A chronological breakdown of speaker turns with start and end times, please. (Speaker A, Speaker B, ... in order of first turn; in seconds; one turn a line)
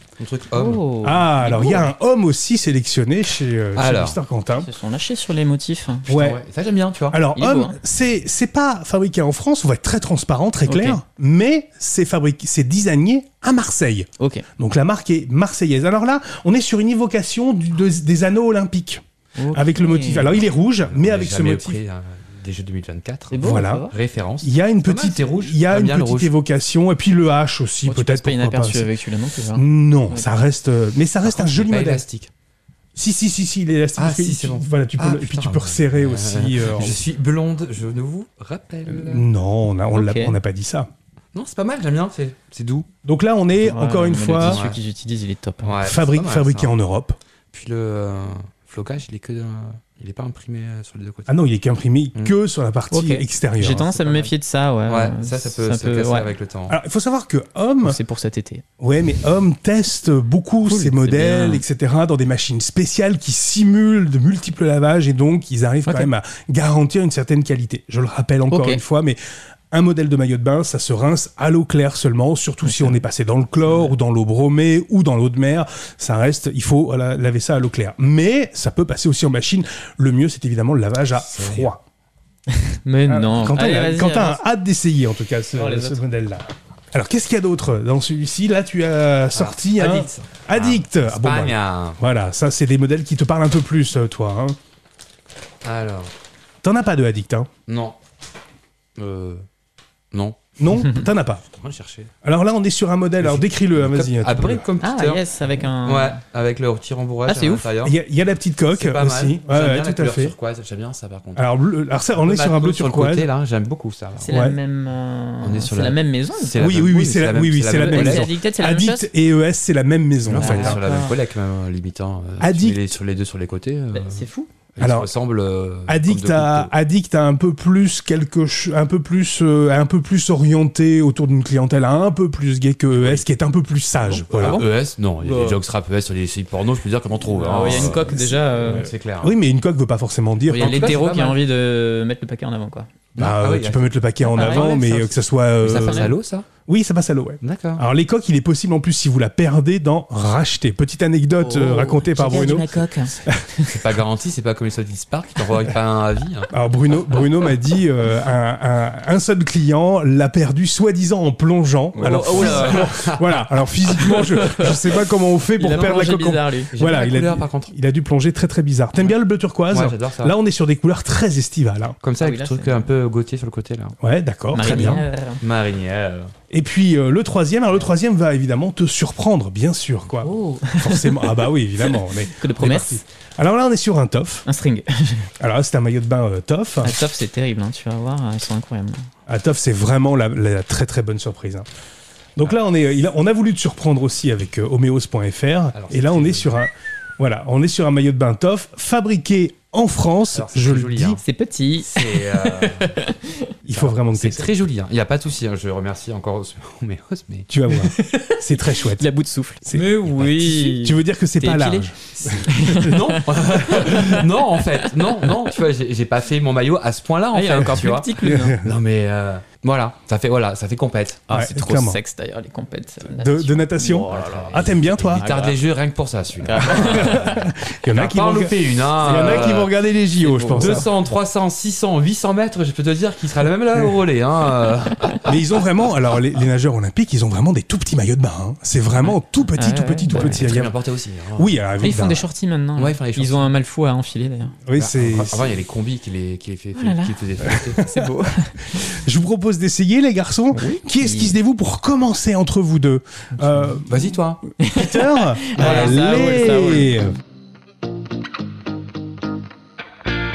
Speaker A: 0.2-0.8
Speaker B: 0.5-1.9
Speaker C: 1.0-4.7
Speaker A: 3.8-4.2
Speaker B: 4.6-6.2
Speaker C: 6.1-6.4
Speaker A: 6.1-7.2
Speaker C: 7.1-21.8
Speaker B: 7.3-7.8
Speaker B: 10.7-11.0
Speaker B: 14.2-14.4
Speaker B: 19.4-20.3
Speaker A: 20.9-26.3
Speaker B: 23.3-23.9
Speaker C: 23.4-23.9
Speaker C: 24.4-28.9
Speaker B: 27.8-30.2
Speaker C: 29.5-32.0
Speaker A: 31.2-32.3
Speaker C: 32.9-37.0
Speaker A: 34.0-39.2
Speaker C: 38.9-40.9
Speaker B: 39.9-40.4
Speaker A: 41.3-42.9
Speaker C: 43.0-44.6
Speaker B: 43.6-45.8
Speaker A: 44.4-44.8
Speaker A: 45.6-46.7
Speaker C: 45.8-47.2
Speaker A: 47.5-51.4
Speaker C: 51.3-53.9
Speaker B: 52.9-56.3
Speaker A: 53.8-54.3
Speaker A: 54.9-56.8
Speaker C: 56.7-58.0
Speaker B: 57.8-58.6
Speaker C: 58.8-69.2
Speaker B: 60.6-61.6
Speaker B: 68.5-68.8
Speaker C: 69.7-81.8
Speaker B: 72.6-73.0
Speaker B: 73.6-73.9
Speaker A: 81.1-81.7
Speaker B: 82.5-84.4
Speaker C: 83.1-94.6
Speaker B: 85.5-86.0
Speaker A: 89.3-92.0
Speaker A: 95.6-96.1
Speaker C: 96.6-97.5
Speaker A: 97.7-98.0
Speaker A: 99.0-99.5
Speaker A: 100.1-100.4
Speaker C: 100.6-101.4
Speaker A: 101.5-102.1
Speaker C: 102.2-104.6
Speaker A: 103.2-105.2
Speaker B: 104.8-106.2
Speaker A: 105.8-108.0
Speaker B: 107.2-107.7
Speaker C: 107.8-110.3
Speaker A: 108.7-111.5
Speaker C: 111.3-113.3
Speaker A: 112.1-114.3
Speaker B: 114.2-116.6
Speaker C: 114.3-114.5
Speaker A: 115.4-118.3
Speaker C: 116.6-120.8
Speaker B: 117.7-119.1
Speaker A: 120.3-126.7
Speaker B: 120.3-121.2
Speaker C: 122.4-122.8
Speaker B: 123.9-124.5
Speaker C: 124.8-125.1
Speaker C: 125.9-134.6
Speaker A: 132.9-133.2
Speaker A: 134.1-139.3
Speaker B: 134.3-134.7
Speaker B: 135.2-135.6
Speaker B: 137.3-138.9
Speaker C: 137.5-141.0
Speaker B: 140.5-142.9
Speaker A: 140.5-141.4
Speaker A: 143.2-144.8
Speaker C: 143.2-146.1
Speaker B: 144.2-146.1
Speaker A: 145.6-146.5
Speaker C: 146.7-153.6
Speaker A: 147.4-147.8
Speaker B: 151.4-153.7
Speaker A: 153.6-156.5
Speaker C: 156.5-172.0
Speaker A: 161.9-163.4
Speaker B: 162.0-163.0
Speaker B: 164.0-165.0
Speaker B: 165.6-166.7
Speaker A: 166.7-167.7
Speaker A: 169.7-170.3
Speaker A: 172.0-174.0
Speaker B: 172.2-172.9
Speaker C: 174.0-175.0
Speaker B: 174.5-175.4
Speaker A: 174.5-176.3
Speaker C: 176.5-184.4
Speaker B: 180.2-183.0
Speaker B: 184.4-185.3
Speaker C: 185.4-186.9
Speaker B: 186.8-189.1
Speaker C: 189.3-191.7
Speaker C: 192.3-201.2
Speaker A: 195.7-196.6
Speaker A: 200.3-201.2
Speaker B: 201.2-203.5
Speaker A: 201.8-203.0
Speaker C: 203.6-204.5
Speaker A: 203.7-207.5
Speaker C: 207.5-209.1
Speaker B: 207.8-215.4
Speaker C: 209.6-212.9
Speaker A: 212.7-221.3
Speaker B: 217.3-218.6
Speaker C: 218.2-218.7
Speaker B: 221.3-225.6
Speaker C: 221.3-222.0
Speaker C: 223.1-225.2
Speaker A: 224.1-229.7
Speaker B: 226.4-227.4
Speaker C: 226.6-230.9
Speaker B: 230.2-230.8
Speaker A: 230.4-235.3
Speaker C: 235.2-240.7
Speaker B: 239.5-240.5
Speaker A: 240.1-241.9
Speaker C: 241.3-242.2
Speaker B: 241.8-244.6
Speaker A: 242.8-243.5
Speaker C: 244.7-245.5
Speaker A: 244.7-247.9
Speaker B: 246.8-247.2
Speaker C: 247.5-248.1
Speaker B: 247.7-248.9
Speaker C: 248.7-254.0
Speaker B: 250.5-251.3
Speaker A: 253.8-254.4
Speaker B: 254.6-257.0
Speaker C: 254.7-257.1
Speaker A: 255.6-255.9